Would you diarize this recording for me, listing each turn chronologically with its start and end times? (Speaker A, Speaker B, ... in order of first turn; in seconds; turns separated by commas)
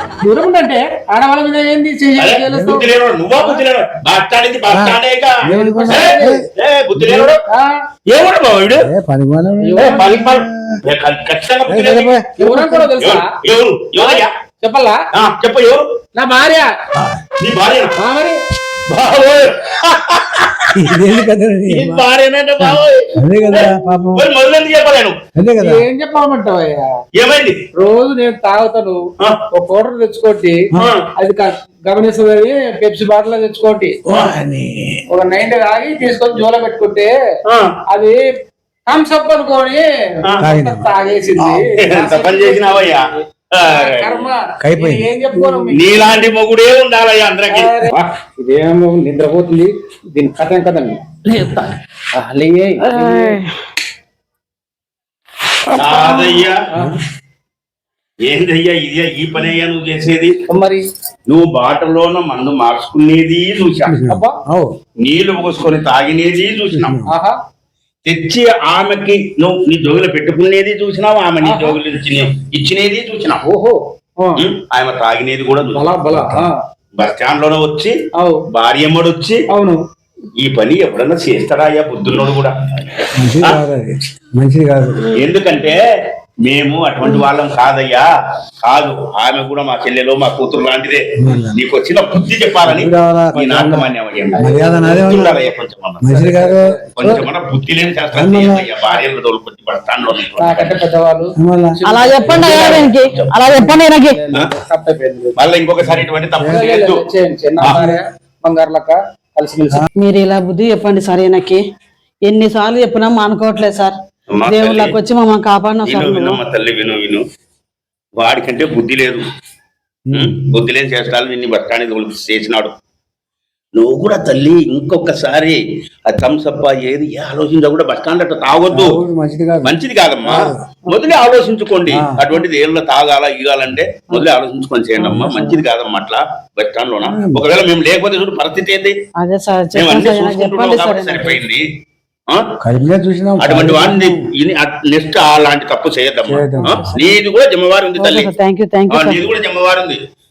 Speaker A: 0.2-2.9, Speaker B: 2.2-7.4, Speaker C: 2.5-2.9, Speaker C: 4.7-6.4, Speaker A: 5.5-6.4, Speaker A: 7.0-7.7, Speaker B: 8.1-8.9, Speaker C: 8.8-10.8, Speaker A: 9.6-10.1, Speaker B: 9.8-12.2, Speaker C: 11.7-12.9, Speaker A: 12.4-13.3, Speaker B: 13.0-14.3, Speaker A: 14.0-15.0, Speaker B: 15.1-15.8, Speaker A: 16.2-16.7, Speaker B: 17.3-17.9, Speaker A: 18.0-18.4, Speaker B: 18.9-21.0, Speaker C: 20.7-22.1, Speaker B: 21.7-25.2, Speaker C: 22.6-24.3, Speaker C: 25.4-25.8, Speaker A: 25.6-26.9, Speaker B: 27.2-27.6, Speaker A: 27.8-30.7, Speaker B: 30.8-31.1, Speaker A: 31.2-34.0, Speaker C: 34.1-35.0, Speaker A: 35.1-37.1, Speaker B: 37.5-37.8, Speaker A: 37.9-38.2, Speaker A: 38.9-46.1, Speaker C: 40.4-41.6, Speaker B: 41.8-44.2, Speaker C: 44.6-45.1, Speaker B: 45.7-48.0, Speaker A: 47.5-51.0, Speaker B: 51.3-51.7, Speaker A: 52.1-53.4, Speaker D: 52.8-53.5, Speaker D: 55.7-56.4, Speaker B: 55.7-56.6, Speaker B: 58.2-60.4, Speaker A: 60.5-60.8, Speaker B: 61.3-64.0, Speaker C: 63.9-64.7, Speaker A: 64.1-64.4, Speaker B: 65.0-67.0, Speaker C: 66.7-67.1, Speaker A: 67.1-67.3, Speaker B: 68.0-73.4, Speaker A: 71.4-71.8, Speaker A: 73.4-74.4, Speaker B: 74.4-75.9, Speaker A: 75.8-76.5, Speaker C: 76.1-76.5, Speaker B: 77.0-78.0, Speaker A: 78.2-78.4, Speaker B: 78.5-79.4, Speaker A: 79.5-79.8, Speaker B: 80.4-83.6, Speaker C: 83.2-85.1, Speaker B: 85.1-85.8, Speaker B: 86.5-88.1, Speaker B: 88.6-91.0, Speaker C: 91.2-91.6, Speaker B: 91.5-96.2, Speaker C: 92.6-95.4, Speaker A: 94.4-95.2, Speaker C: 96.0-97.2, Speaker A: 96.1-96.8, Speaker B: 97.0-100.8, Speaker C: 98.2-98.7, Speaker A: 100.4-102.9, Speaker C: 101.4-103.8, Speaker D: 101.9-104.2, Speaker B: 102.3-103.3, Speaker A: 104.1-105.4, Speaker B: 105.4-107.1, Speaker C: 105.8-106.7, Speaker A: 106.5-109.9, Speaker C: 107.6-108.0, Speaker D: 110.0-111.6, Speaker D: 112.3-116.4, Speaker B: 114.3-115.0, Speaker B: 115.8-117.2, Speaker B: 118.2-119.2, Speaker C: 120.1-120.3, Speaker B: 120.1-122.8, Speaker B: 123.8-129.0, Speaker C: 128.7-129.7, Speaker B: 129.6-138.9, Speaker C: 130.3-130.6, Speaker C: 131.9-132.2, Speaker D: 135.0-135.6, Speaker C: 137.0-137.4, Speaker D: 139.2-141.4, Speaker B: 139.8-141.7, Speaker C: 142.6-144.2, Speaker B: 143.4-148.3, Speaker C: 146.3-146.9, Speaker D: 146.6-147.0, Speaker D: 148.0-149.2, Speaker B: 148.9-150.0